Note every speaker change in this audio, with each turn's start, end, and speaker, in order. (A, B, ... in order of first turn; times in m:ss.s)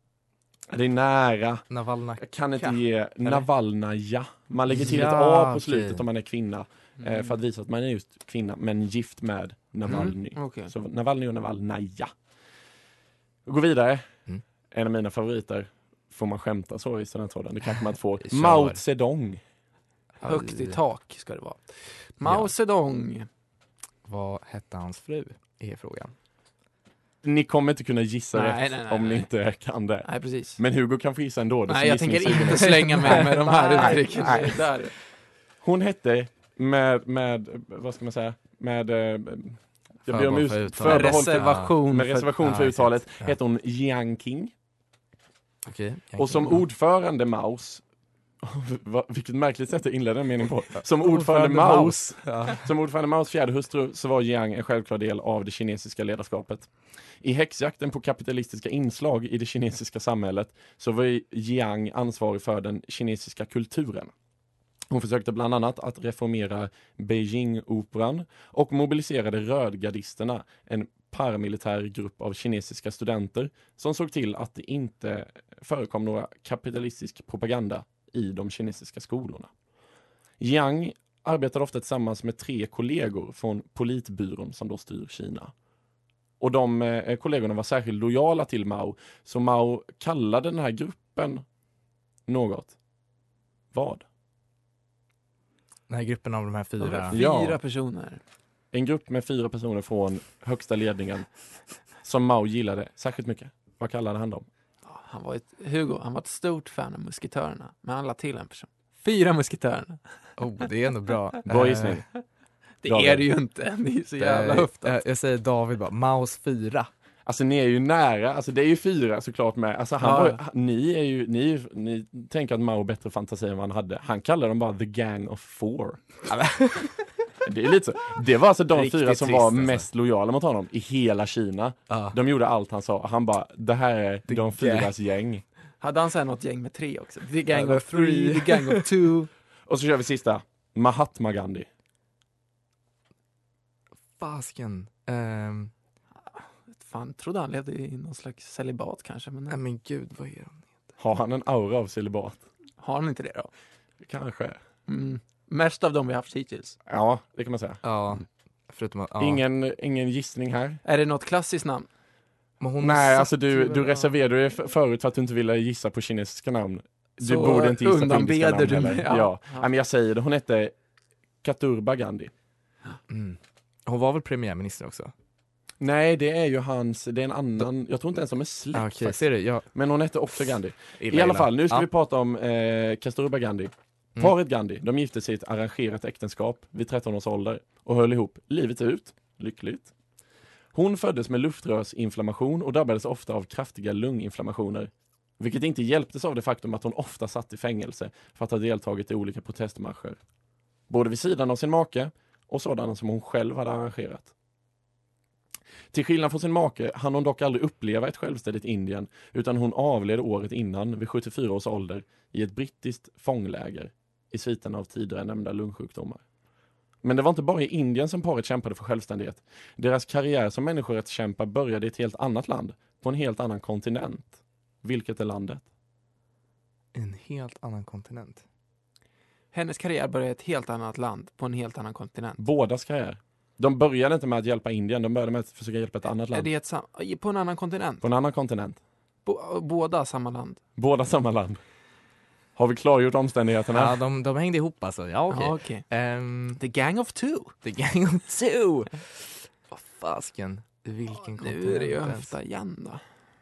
0:00.7-0:12.1 A
0:01.7-0:02.7 B
0:04.7-0:06.0 B
0:07.0-0:07.4 C
0:09.8-0:10.7 C
0:13.4-0:19.4 A
0:18.2-0:18.8 B
0:20.2-0:20.8 B
0:20.2-0:23.3 C
0:22.2-0:22.5 B
0:24.0-0:26.1 B
0:27.2-0:34.7 A
0:28.3-0:29.3 C
0:30.0-0:30.6 C
0:31.7-0:34.9 C
0:33.0-0:34.5 B
0:35.6-0:44.5 A
0:40.1-0:41.8 B
0:40.8-0:42.3 C
0:42.4-0:43.3 B
0:45.6-0:46.6 B
0:46.2-0:47.8 A
0:48.4-1:04.1 A
0:50.8-0:52.6 B
1:04.9-1:19.5 A
1:20.4-1:25.5 A
1:26.4-1:31.4 A
1:32.3-1:32.7 A
1:33.7-1:34.0 A
1:35.9-1:37.2 B
1:36.8-1:38.2 C
1:37.1-1:37.6 A
1:38.7-1:41.4 A
1:42.0-1:44.4 A
1:44.8-1:50.3 C
1:50.4-1:52.0 B
1:51.5-1:52.1 A
1:52.8-1:55.0 C
1:52.8-1:53.3 A
1:54.2-1:56.9 B
1:57.2-2:06.1 A
2:00.0-2:00.4 C
2:06.3-2:07.0 B
2:07.4-2:15.4 A
2:08.7-2:09.8 B
2:11.9-2:12.2 B
2:14.3-2:14.9 B
2:15.8-2:19.3 C
2:17.5-2:18.8 B
2:19.7-2:21.7 A
2:24.2-2:25.7 B
2:26.3-2:29.6 C
2:29.5-2:30.7 B
2:31.0-2:32.4 A
2:32.8-2:33.5 C
2:34.0-2:34.6 A
2:34.9-2:36.8 C
2:36.8-2:37.8 A
2:37.8-2:39.4 B
2:39.2-2:40.8 A
2:40.8-2:41.9 C
2:42.6-2:44.1 B
2:42.8-2:50.8 A
2:47.2-2:49.6 C
2:51.4-2:52.3 A
2:53.1-2:55.1 B
2:55.8-3:09.9 A
2:58.7-2:59.7 B
3:01.0-3:01.9 B
3:10.7-3:20.2 A
3:20.9-3:24.3 A
3:25.9-3:36.2 A
3:37.0-3:45.6 A
3:46.9-3:48.4 B
3:49.5-3:52.4 C
3:52.4-3:56.5 A
3:56.3-3:58.0 C
3:58.0-3:58.8 A
3:59.2-4:00.6 C
4:00.8-4:01.6 A
4:02.6-4:04.0 A
4:03.7-4:06.6 B
4:05.3-4:05.9 C
4:06.6-4:07.5 C
4:07.6-4:12.3 B
4:11.2-4:13.0 C